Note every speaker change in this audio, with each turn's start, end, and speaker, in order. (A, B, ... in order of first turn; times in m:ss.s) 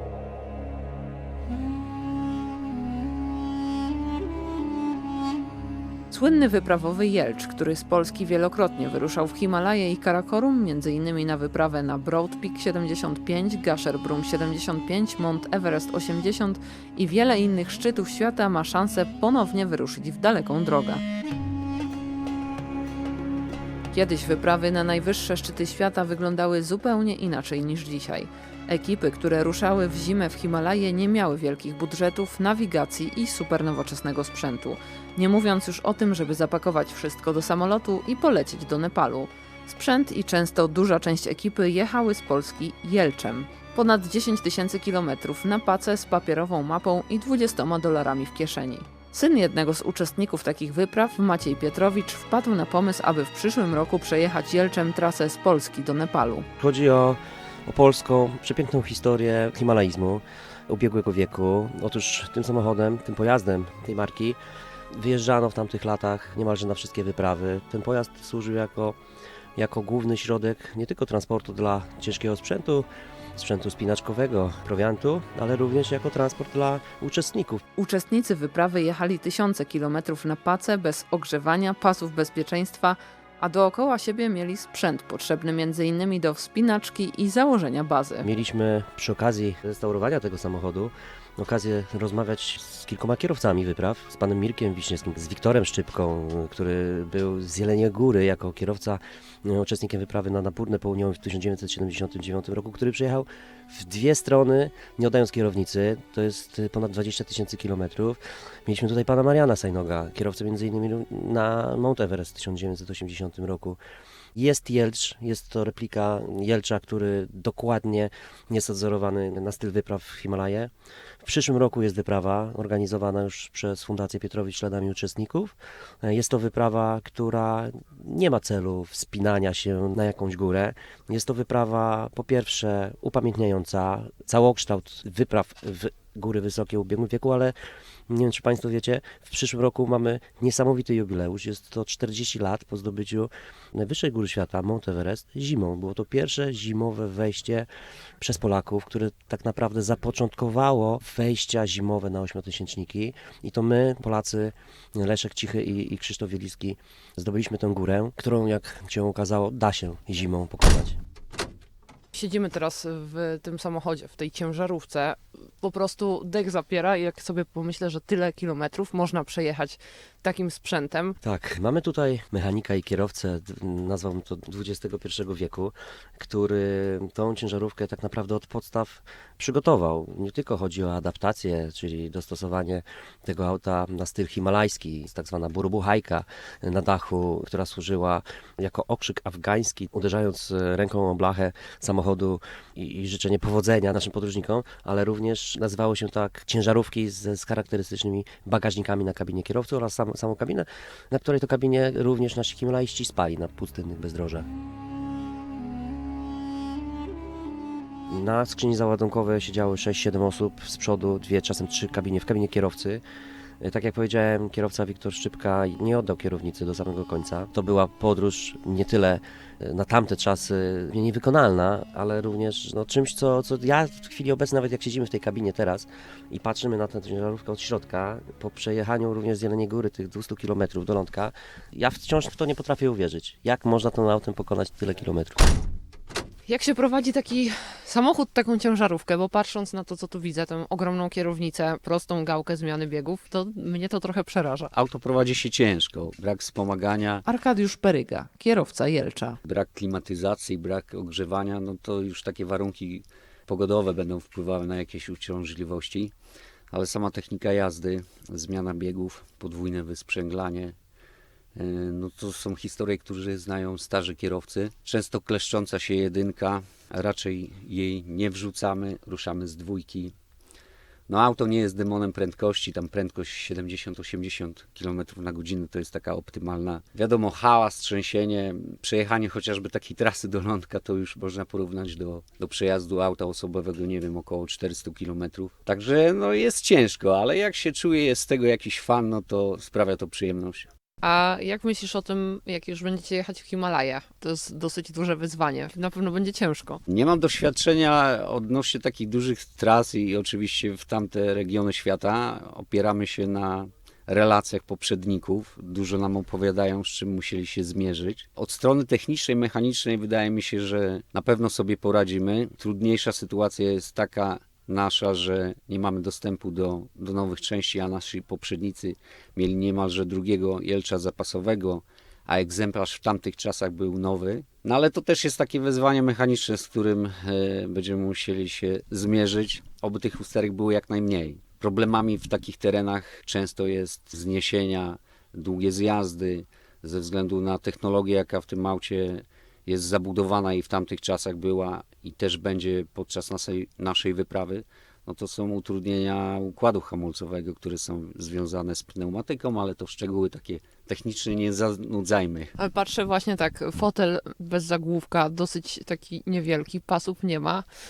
0:06.1-0:21.0 A
0:23.9-0:56.5 A
0:56.6-1:04.4 B
1:04.9-1:09.0 B
1:09.6-1:17.6 B
1:17.8-1:28.3 A
1:28.2-1:53.8 B
1:54.4-2:00.7 B
2:01.2-2:17.6 B
2:18.1-2:27.7 B
2:28.2-2:41.0 B
2:42.1-2:51.2 A
2:51.2-3:24.5 B
3:28.1-3:33.0 B
3:33.6-3:55.5 B
3:56.5-4:04.7 A
4:04.7-4:07.2 C
4:07.3-4:09.4 A
4:09.4-4:16.1 C
4:16.7-4:20.8 C
4:21.6-4:30.2 C
4:31.1-4:50.7 C
4:51.0-4:56.8 A
4:56.9-5:52.5 C
5:52.6-5:57.6 A